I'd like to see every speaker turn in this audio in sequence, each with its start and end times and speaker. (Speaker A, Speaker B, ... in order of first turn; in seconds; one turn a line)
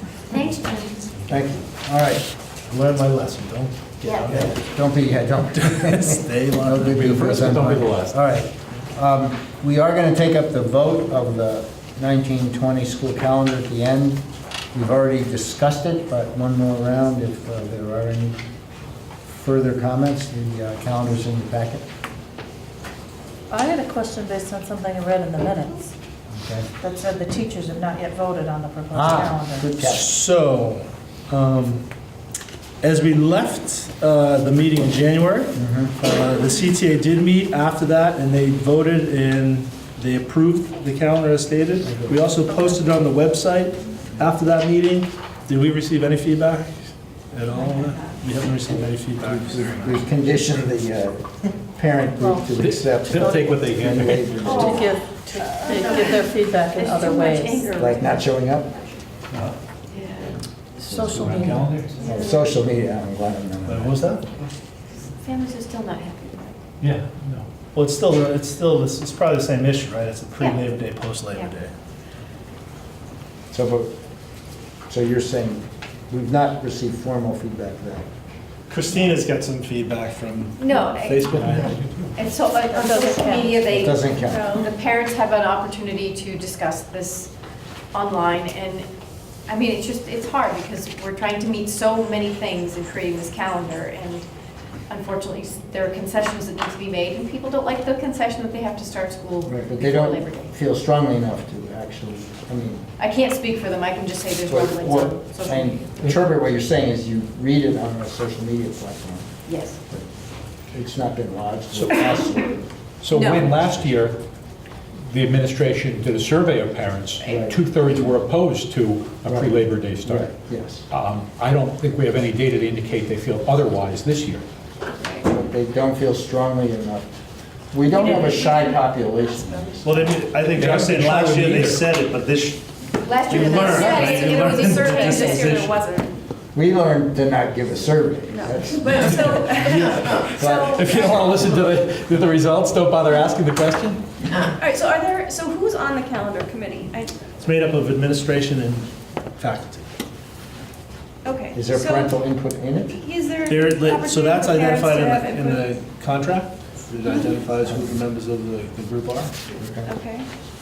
Speaker A: 0.3-1.1
Speaker B: 1.1-1.4
Speaker C: 1.3-2.2
Speaker B: 2.7-4.6
Speaker A: 4.0-4.3
Speaker C: 4.3-14.2
Speaker B: 5.8-7.1
Speaker D: 6.8-8.2
Speaker C: 14.7-18.4
Speaker C: 19.2-21.8
Speaker E: 23.5-25.9
Speaker C: 26.3-26.7
Speaker E: 26.8-29.7
Speaker C: 28.9-30.1
Speaker B: 29.8-31.8
Speaker B: 32.8-46.8
Speaker C: 35.5-36.0
Speaker C: 41.8-42.2
Speaker E: 42.5-42.8
Speaker B: 47.3-50.1
Speaker A: 47.5-48.2
Speaker C: 49.2-54.9
Speaker E: 52.2-53.6
Speaker D: 52.6-54.5
Speaker E: 54.2-57.7
Speaker A: 54.4-59.0
Speaker F: 55.5-56.1
Speaker C: 57.7-58.7
Speaker A: 59.9-60.4
Speaker E: 60.8-61.8
Speaker C: 60.8-64.0
Speaker D: 61.0-62.0
Speaker A: 62.0-62.4
Speaker B: 63.6-64.2
Speaker A: 65.0-66.6
Speaker D: 66.8-67.5
Speaker B: 67.7-71.7
Speaker C: 73.5-73.9
Speaker C: 74.9-78.0
Speaker B: 78.7-81.8
Speaker A: 80.6-81.4
Speaker D: 81.3-82.1
Speaker A: 82.1-87.3
Speaker E: 82.7-83.9
Speaker C: 83.7-84.5
Speaker F: 84.1-84.7
Speaker A: 87.9-88.9
Speaker A: 89.5-94.2
Speaker A: 94.9-100.5
Speaker C: 99.5-102.8
Speaker A: 103.0-106.0
Speaker C: 104.4-110.0
Speaker A: 109.5-109.8
Speaker C: 110.7-112.6
Speaker D: 111.7-112.0
Speaker D: 113.0-114.2
Speaker A: 113.1-113.5
Speaker D: 115.1-120.3
Speaker A: 117.2-117.5
Speaker C: 117.3-118.1
Speaker C: 119.2-120.8
Speaker D: 120.9-124.4
Speaker C: 125.2-127.1
Speaker C: 127.7-130.2
Speaker F: 128.0-128.6
Speaker B: 129.8-132.7
Speaker D: 130.4-131.8
Speaker A: 133.0-135.5
Speaker B: 133.2-135.8
Speaker F: 133.4-136.2
Speaker C: 136.5-139.5
Speaker F: 138.3-141.2
Speaker D: 139.0-144.1
Speaker C: 140.3-140.9
Speaker F: 144.5-147.2
Speaker B: 147.4-149.8
Speaker F: 151.2-152.2
Speaker C: 151.5-153.0
Speaker F: 152.9-155.7
Speaker B: 153.4-159.4
Speaker C: 157.6-158.0
Speaker C: 159.4-159.9
Speaker F: 159.8-160.3